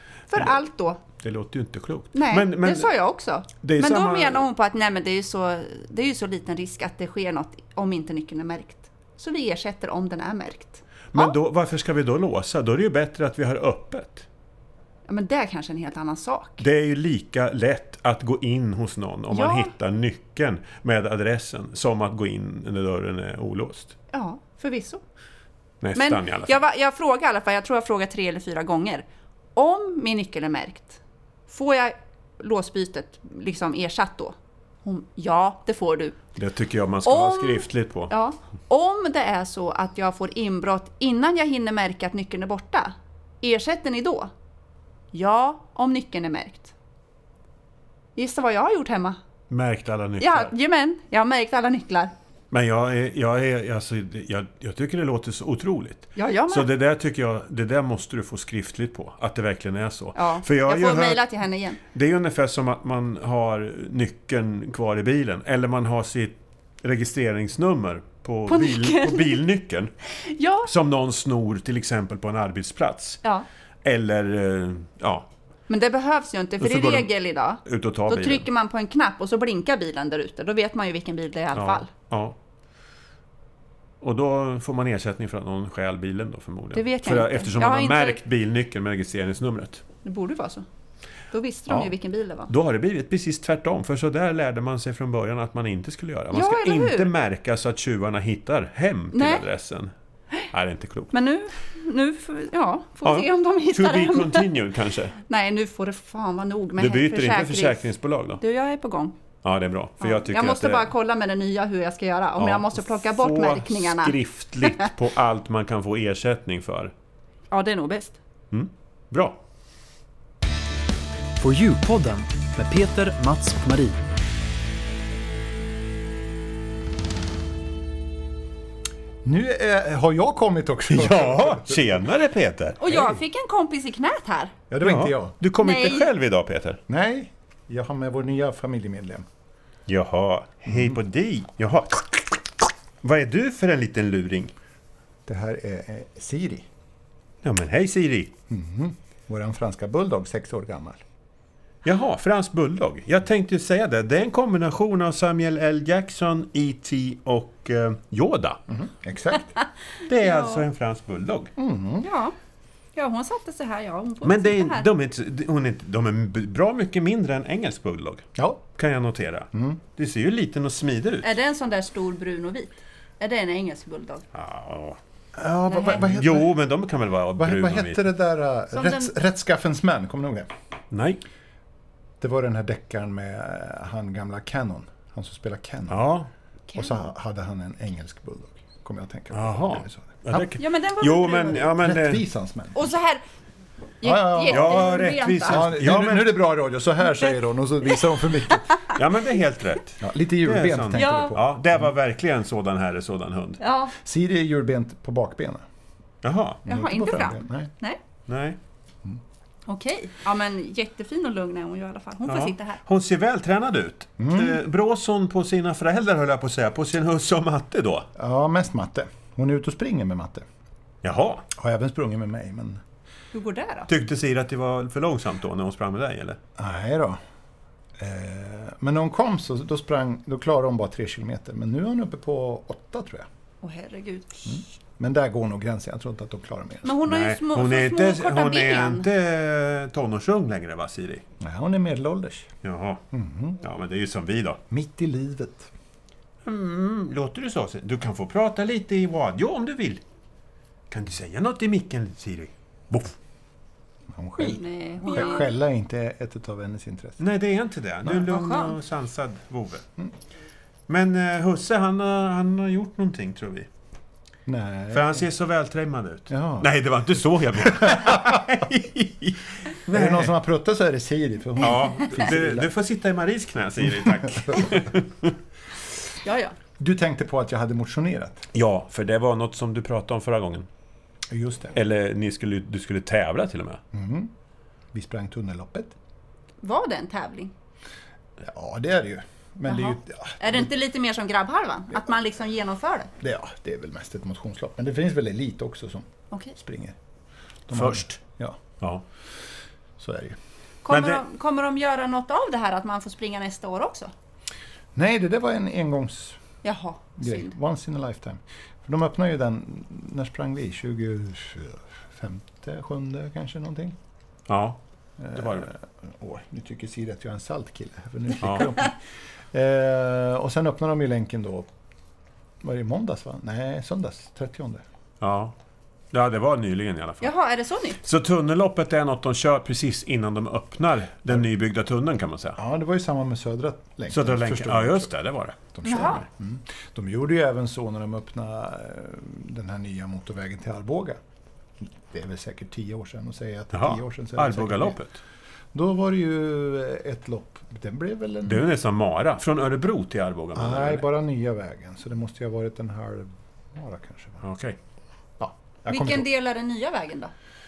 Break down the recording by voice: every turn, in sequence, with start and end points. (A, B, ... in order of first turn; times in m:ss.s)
0:00.3-0:01.0 A
0:01.2-0:02.9 B
0:02.1-0:11.3 A
0:03.6-0:04.4 B
0:11.1-0:14.2 B
0:15.1-0:16.6 A
0:16.6-0:24.0 B
0:19.3-0:19.7 A
0:24.1-0:25.0 A
0:25.8-0:26.6 B
0:25.9-0:36.2 A
0:36.4-0:38.1 B
0:37.0-0:44.3 A
0:45.1-0:46.7 A
0:48.2-0:49.2 A
0:49.5-0:50.5 B
0:50.2-0:52.1 A
0:52.5-1:01.2 B
0:56.2-0:56.7 A
1:00.1-1:01.8 A
1:01.8-1:09.9 B
1:08.5-1:09.4 A
1:10.2-1:10.7 A
1:10.6-1:13.2 B
1:13.8-1:15.3 B
1:15.7-1:21.9 A
1:16.6-1:17.1 B
1:17.6-1:18.4 B
1:21.5-1:22.4 B
1:24.0-1:29.8 B
1:26.7-1:28.2 A
1:30.0-1:30.6 A
1:31.3-1:32.5 A
1:31.7-1:31.9 B
1:32.5-1:39.9 B
1:36.3-1:37.1 A
1:39.1-1:39.4 A
1:40.5-1:41.1 B
1:41.1-1:44.5 A
1:43.0-1:45.2 B
1:45.3-1:49.2 A
1:46.8-1:48.4 B
1:49.4-1:50.9 B
1:50.0-1:54.2 A
1:52.4-1:56.9 B
1:57.5-1:58.2 A
1:58.5-1:59.4 B
2:01.4-2:04.0 C
2:09.2-2:11.8 D
2:10.9-2:12.8 B
2:12.8-2:14.5 A
2:14.7-2:15.3 D
2:14.8-2:16.8 B
2:15.6-2:16.1 A
2:16.9-2:19.2 D
2:19.9-2:22.5 B
2:20.7-2:21.0 D
2:23.0-2:24.5 B
2:25.2-2:26.7 D
2:27.4-2:28.3 B
2:28.5-2:31.0 D
2:31.8-2:38.6 B
2:38.7-2:39.5 D
2:40.0-2:41.5 B
2:40.2-2:40.6 A
2:41.6-2:42.1 D
2:42.0-2:42.3 A
2:42.9-2:44.8 A
2:44.2-2:51.3 B
2:48.4-2:48.6 D
2:49.5-2:49.8 D
2:51.2-2:54.2 A
2:54.3-2:55.0 B
2:55.3-2:56.5 D
2:55.7-2:56.0 A
2:56.0-2:58.0 B
2:57.4-3:00.5 D
2:58.7-2:59.1 A
3:00.9-3:01.2 B
3:02.2-3:06.1 D
3:05.9-3:06.3 B
3:06.7-3:07.0 A
3:06.7-3:10.4 D
3:09.3-3:12.2 B
3:10.6-3:11.7 A
3:11.6-3:12.9 D
3:12.7-3:13.2 A
3:14.0-3:15.6 A
3:14.0-3:18.8 D
3:14.5-3:16.4 B
3:18.9-3:23.6 B
3:20.0-3:21.8 D
3:21.0-3:21.3 A
3:23.6-3:23.9 A
3:24.0-3:25.6 D
3:26.2-3:27.3 B
3:26.6-3:28.0 A
3:26.7-3:27.7 D
3:28.3-3:28.6 B
3:29.7-3:32.8 A
3:32.3-3:38.1 B
3:34.2-3:34.6 D
3:38.2-3:40.4 D
3:41.0-3:41.4 B
3:41.5-3:42.8 D
3:43.3-3:43.9 A
3:43.9-3:46.4 B
3:46.6-3:47.2 D
3:48.0-3:53.3 D
3:53.6-3:54.5 A
3:54.4-3:57.0 D
3:56.8-3:59.1 A
3:57.1-4:01.2 B
4:01.4-4:02.5 D
4:02.6-4:03.0 B
4:03.1-4:03.6 D
4:03.6-4:04.6 B
4:04.7-4:05.7 D
4:06.4-4:10.0 B
4:10.9-4:13.2 B
4:14.1-4:17.2 D
4:14.4-4:15.5 A
4:17.2-4:19.8 B
4:18.3-4:18.7 A
4:20.9-4:23.7 B
4:24.4-4:25.3 D
4:24.9-4:30.3 B
4:26.3-4:26.7 D
4:27.6-4:28.4 D
4:29.9-4:32.7 D
4:31.6-4:35.4 B
4:33.9-4:34.8 D
4:36.2-4:36.6 A
4:36.8-4:38.5 D
4:38.5-4:40.7 B
4:41.3-4:41.8 D
4:41.7-4:43.8 B
4:43.9-4:44.3 D
4:44.9-4:45.9 D
4:46.6-4:47.5 A
4:48.4-4:50.7 D
4:49.6-4:53.1 A
4:53.2-4:57.0 D
4:57.7-4:58.2 B
4:57.7-4:58.6 D
5:00.0-5:00.4 D
5:00.8-5:04.1 A
5:00.9-5:01.2 B
5:04.9-5:06.4 D
5:06.6-5:07.5 A
5:07.2-5:14.0 D
5:14.5-5:14.8 B
5:15.2-5:19.0 D
5:15.3-5:15.7 B
5:18.4-5:18.7 B
5:19.5-5:21.7 D
5:22.6-5:24.8 D
5:25.2-5:25.5 B
5:26.1-5:27.3 B
5:27.2-5:28.0 A
5:28.0-5:32.6 B
5:32.6-5:35.1 D
5:34.1-5:36.2 B
5:35.7-5:41.2 D
5:35.8-5:36.2 A
5:41.8-5:45.0 D
5:43.7-5:45.2 B
5:45.7-5:48.7 D
5:48.4-5:51.0 B
5:50.5-5:54.4 D
5:54.4-5:54.8 B
5:55.4-5:56.3 D
5:55.9-5:57.3 A